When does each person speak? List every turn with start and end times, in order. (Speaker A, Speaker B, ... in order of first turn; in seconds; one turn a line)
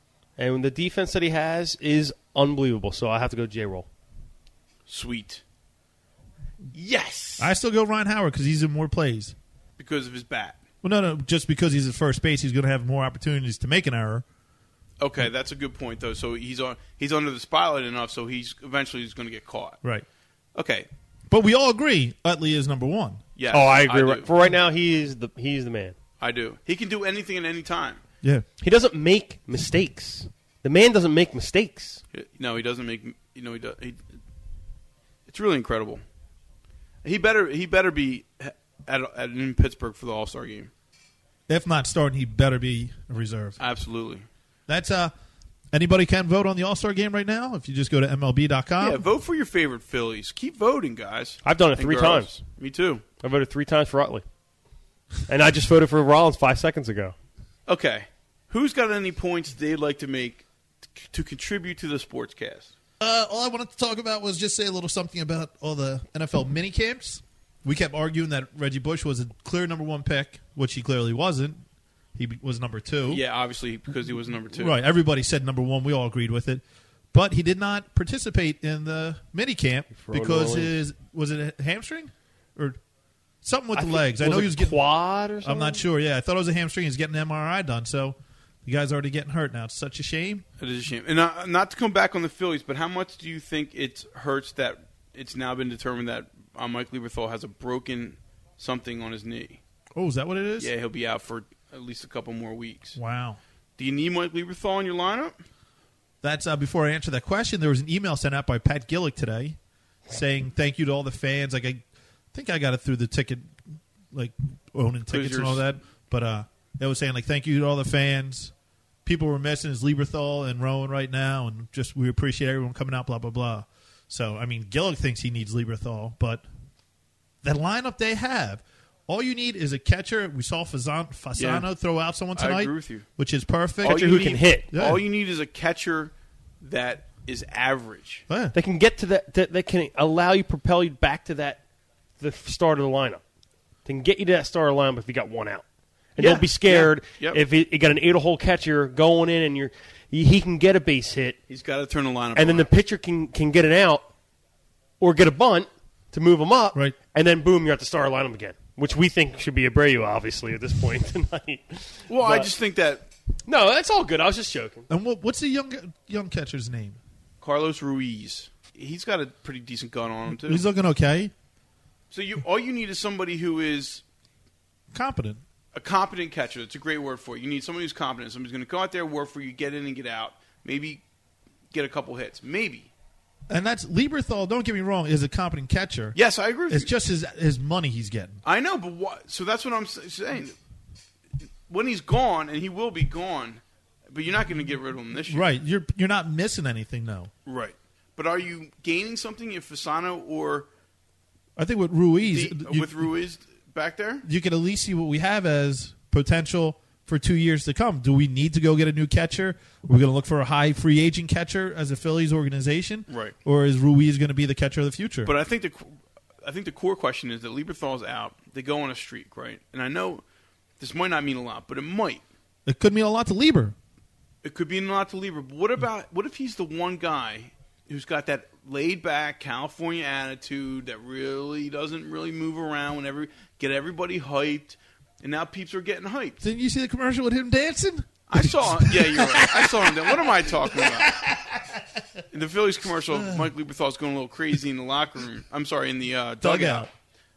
Speaker A: 0.4-3.9
Speaker B: 4.9-5.4
Speaker B: 6.7-7.5
Speaker C: 7.4-9.3
Speaker B: 9.8-10.6
Speaker C: 10.8-14.2
Speaker B: 15.0-19.8
Speaker B: 20.5-20.9
Speaker C: 21.3-23.2
Speaker B: 23.4-24.3
Speaker A: 23.5-25.9
Speaker B: 26.2-28.0
Speaker A: 28.6-32.0
Speaker B: 32.1-34.0
Speaker B: 35.3-36.0
Speaker B: 37.0-40.7
Speaker C: 41.5-43.6
Speaker B: 43.6-44.2
Speaker C: 44.7-45.1
Speaker C: 45.7-49.0
Speaker B: 48.8-53.0
Speaker A: 51.4-52.4
Speaker A: 53.2-54.2
Speaker A: 55.3-57.1
Speaker B: 57.7-60.4
Speaker B: 61.0-62.7
Speaker C: 63.0-71.6
Speaker C: 72.1-73.2
Speaker B: 73.1-74.7
Speaker C: 74.5-76.6
Speaker C: 77.1-82.8
Speaker A: 79.9-80.7
Speaker C: 83.4-84.8
Speaker A: 83.7-85.8
Speaker C: 85.4-90.4
Speaker B: 90.6-99.6
Speaker C: 99.9-100.7
Speaker B: 100.6-103.0
Speaker C: 103.0-103.4
Speaker B: 103.8-105.4
Speaker C: 106.2-109.6
Speaker C: 110.1-113.6
Speaker C: 114.1-118.5
Speaker B: 115.1-115.6
Speaker C: 119.0-126.4
Speaker C: 127.4-135.0
Speaker B: 131.4-131.7
Speaker B: 132.3-133.1
Speaker A: 133.8-134.7
Speaker B: 133.8-138.2
Speaker C: 138.3-138.5
Speaker A: 138.5-141.6
Speaker A: 142.2-143.2
Speaker A: 143.8-145.6
Speaker A: 146.2-151.4
Speaker B: 146.2-147.4
Speaker B: 151.5-152.7
Speaker A: 152.3-154.1
Speaker A: 155.0-162.5
Speaker B: 162.1-163.1
Speaker A: 163.5-164.9
Speaker C: 164.9-167.0
Speaker B: 167.4-170.6
Speaker C: 170.3-171.3
Speaker B: 172.1-174.0
Speaker C: 174.9-175.4
Speaker B: 175.7-181.0
Speaker B: 181.7-182.9
Speaker C: 183.5-186.2
Speaker B: 186.1-186.9
Speaker C: 186.7-188.4
Speaker B: 188.4-190.5
Speaker B: 191.7-195.4
Speaker C: 195.3-197.3
Speaker B: 197.4-200.7
Speaker C: 201.6-203.1
Speaker B: 202.2-204.2
Speaker C: 204.2-215.3
Speaker B: 213.1-213.3
Speaker B: 215.2-220.2
Speaker B: 220.8-222.2
Speaker C: 222.7-223.7
Speaker B: 224.4-236.4
Speaker C: 236.4-242.2
Speaker B: 238.3-241.2
Speaker B: 242.3-246.9
Speaker C: 243.1-243.5
Speaker C: 246.4-246.9